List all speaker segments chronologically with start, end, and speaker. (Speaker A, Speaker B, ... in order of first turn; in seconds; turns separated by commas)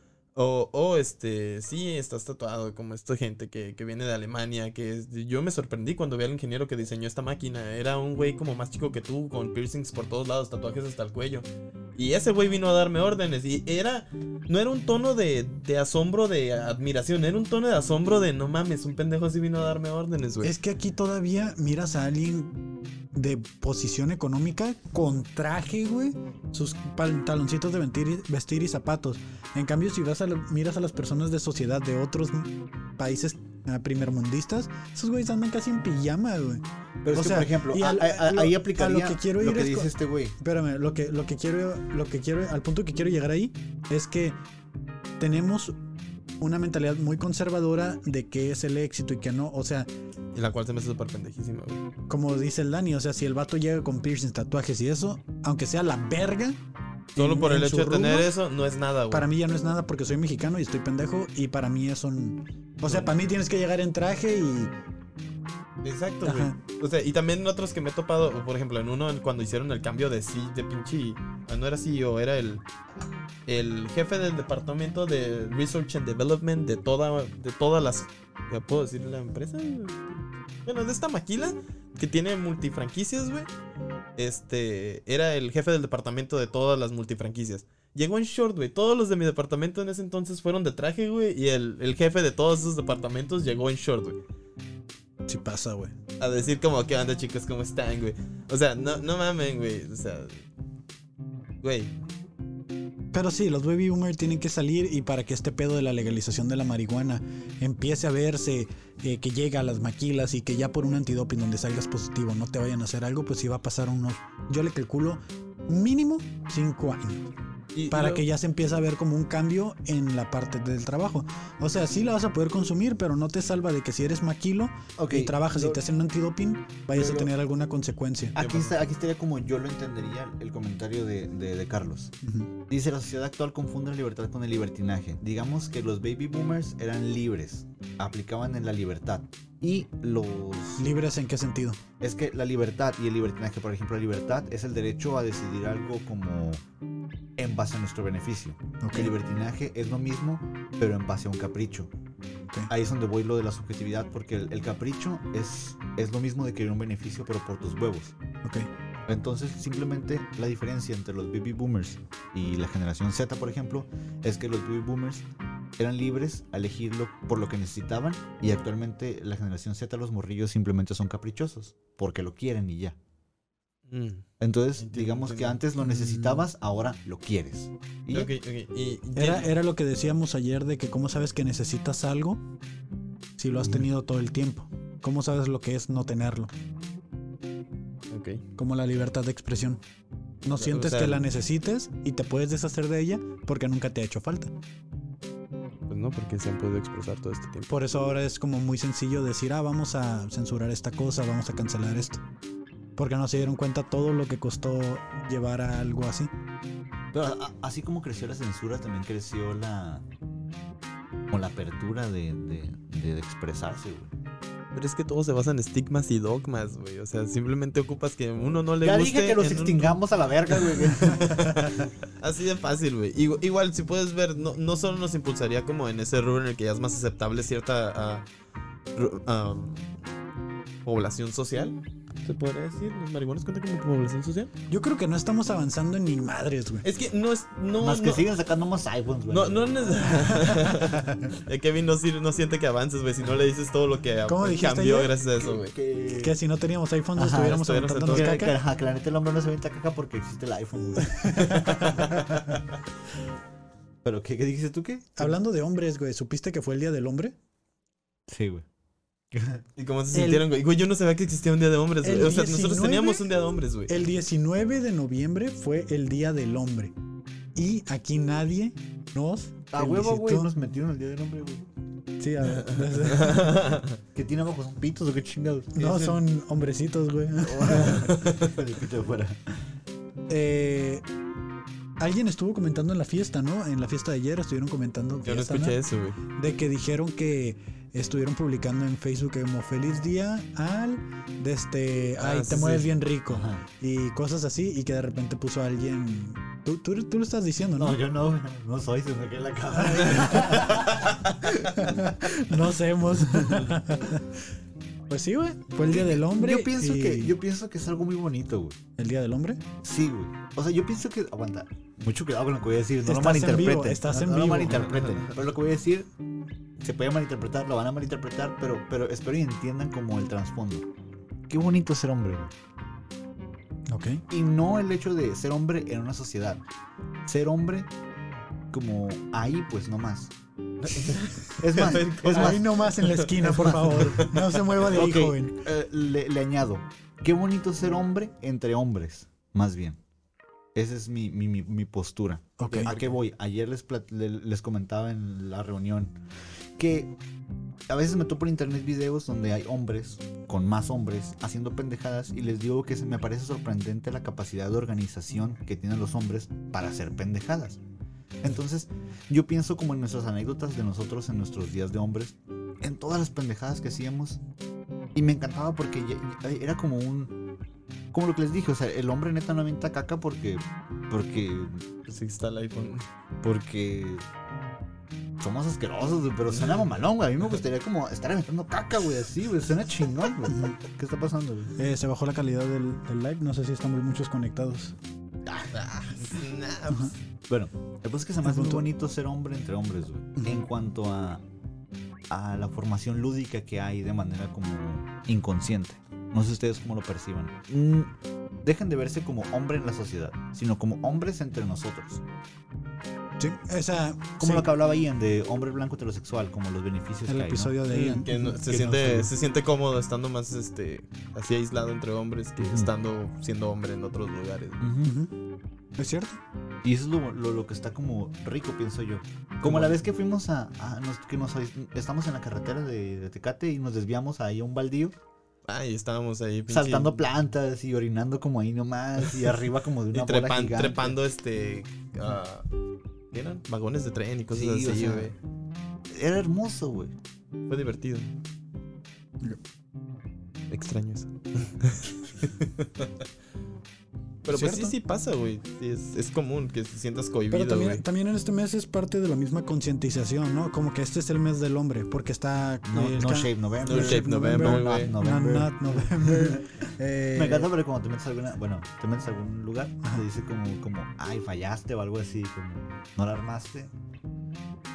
Speaker A: 0.4-20.5, Speaker B: 20.4-44.4, Speaker C: 37.0-40.4, Speaker B: 45.2-45.8, Speaker B: 46.4-49.9, Speaker A: 50.3-51.8, Speaker B: 52.1-56.6, Speaker B: 57.1-58.3, Speaker A: 57.2-59.3, Speaker B: 59.1-64.7, Speaker A: 62.9-63.1, Speaker A: 65.8-72.6, Speaker B: 66.2-66.6, Speaker A: 73.5-83.5, Speaker A: 84.2-94.2, Speaker B: 95.3-95.9, Speaker A: 96.2-100.4, Speaker A: 101.6-101.9, Speaker B: 103.1-117.3, Speaker A: 117.8-118.2, Speaker B: 117.9-128.4, Speaker C: 125.0-125.8, Speaker C: 127.0-127.3, Speaker C: 128.3-132.1, Speaker A: 128.4-128.7, Speaker B: 132.2-132.5, Speaker C: 132.7-140.8, Speaker B: 140.8-141.8, Speaker C: 142.0-146.6, Speaker C: 147.4-151.9, Speaker B: 148.8-149.1, Speaker C: 152.7-158.2, Speaker B: 158.4-158.7, Speaker C: 159.1-165.2, Speaker C: 165.8-173.0, Speaker A: 173.9-174.2, Speaker C: 174.4-178.3, Speaker A: 174.8-175.6, Speaker B: 175.8-176.4, Speaker A: 178.1-179.5, Speaker B: 179.2-182.4, Speaker B: 183.4-186.5, Speaker A: 188.1-188.4, Speaker B: 188.6-189.8, Speaker B: 190.4-194.5, Speaker A: 190.6-191.2, Speaker A: 195.9-197.8, Speaker B: 197.7-202.2, Speaker B: 203.0-206.3, Speaker C: 207.1-210.1, Speaker C: 211.3-214.1, Speaker A: 214.7-220.0, Speaker C: 218.8-221.7, Speaker A: 220.5-228.2, Speaker A: 228.9-229.9, Speaker A: 230.8-234.5, Speaker B: 234.7-236.9, Speaker A: 236.8-238.3, Speaker C: 237.8-240.1, Speaker A: 239.3-245.7, Speaker B: 240.3-241.2, Speaker B: 244.3-245.2, Speaker C: 245.4-246.3, Speaker B: 246.2-248.6, Speaker C: 247.2-252.4, Speaker A: 247.3-248.5, Speaker B: 251.0-252.1, Speaker C: 254.0-255.3, Speaker B: 255.2-257.4, Speaker C: 258.3-258.6, Speaker C: 259.3-259.6, Speaker A: 259.8-264.0, Speaker B: 260.1-260.5, Speaker B: 262.0-263.3, Speaker B: 263.9-266.9, Speaker B: 267.6-270.5, Speaker C: 269.7-271.6, Speaker B: 272.2-273.6, Speaker A: 273.1-273.9, Speaker C: 274.1-275.8, Speaker B: 275.8-278.1, Speaker A: 275.8-276.2, Speaker C: 277.4-279.4, Speaker A: 277.9-278.4, Speaker B: 280.3-281.1, Speaker B: 282.0-285.8, Speaker A: 285.2-286.2, Speaker B: 286.4-298.0, Speaker A: 292.2-292.9, Speaker C: 293.3-293.6, Speaker C: 297.8-301.5, Speaker B: 299.7-300.9, Speaker B: 301.4-304.4, Speaker C: 303.4-303.7, Speaker B: 305.1-307.4, Speaker C: 305.8-308.8, Speaker B: 309.0-309.6, Speaker C: 309.8-316.1, Speaker B: 313.0-314.9, Speaker C: 316.8-320.9, Speaker C: 321.5-322.5, Speaker B: 323.9-324.2, Speaker C: 324.3-326.6, Speaker C: 327.2-327.9, Speaker C: 328.7-330.3, Speaker A: 330.9-334.9, Speaker C: 330.9-332.6, Speaker B: 332.3-335.6, Speaker C: 333.4-333.7, Speaker C: 334.8-340.0, Speaker C: 340.8-346.2, Speaker B: 342.6-342.9, Speaker A: 342.7-343.2, Speaker C: 346.8-347.1, Speaker C: 347.9-357.8, Speaker C: 358.4-364.4, Speaker C: 365.1-367.3, Speaker C: 368.1-371.8, Speaker A: 372.1-373.0, Speaker C: 373.4-374.2, Speaker C: 375.4-381.8, Speaker A: 376.5-376.8, Speaker B: 381.8-384.9, Speaker A: 385.7-387.1, Speaker C: 387.5-391.4, Speaker B: 388.4-388.9, Speaker C: 392.3-402.2, Speaker B: 403.4-404.7, Speaker C: 404.4-407.8, Speaker B: 407.3-408.5, Speaker A: 407.9-414.8, Speaker C: 408.3-409.3, Speaker C: 412.6-412.9, Speaker C: 414.8-415.1, Speaker B: 415.0-415.3, Speaker B: 416.0-416.4, Speaker C: 416.8-425.2, Speaker A: 419.6-420.0, Speaker A: 425.7-427.3, Speaker C: 426.7-431.2, Speaker A: 430.1-432.7, Speaker A: 433.3-435.4, Speaker C: 434.5-435.3, Speaker C: 436.1-437.1, Speaker A: 437.7-438.3, Speaker A: 440.7-443.1, Speaker A: 444.4-448.0, Speaker B: 444.5-444.9, Speaker B: 447.5-457.7, Speaker C: 452.9-456.7, Speaker A: 453.8-455.1, Speaker C: 457.4-463.9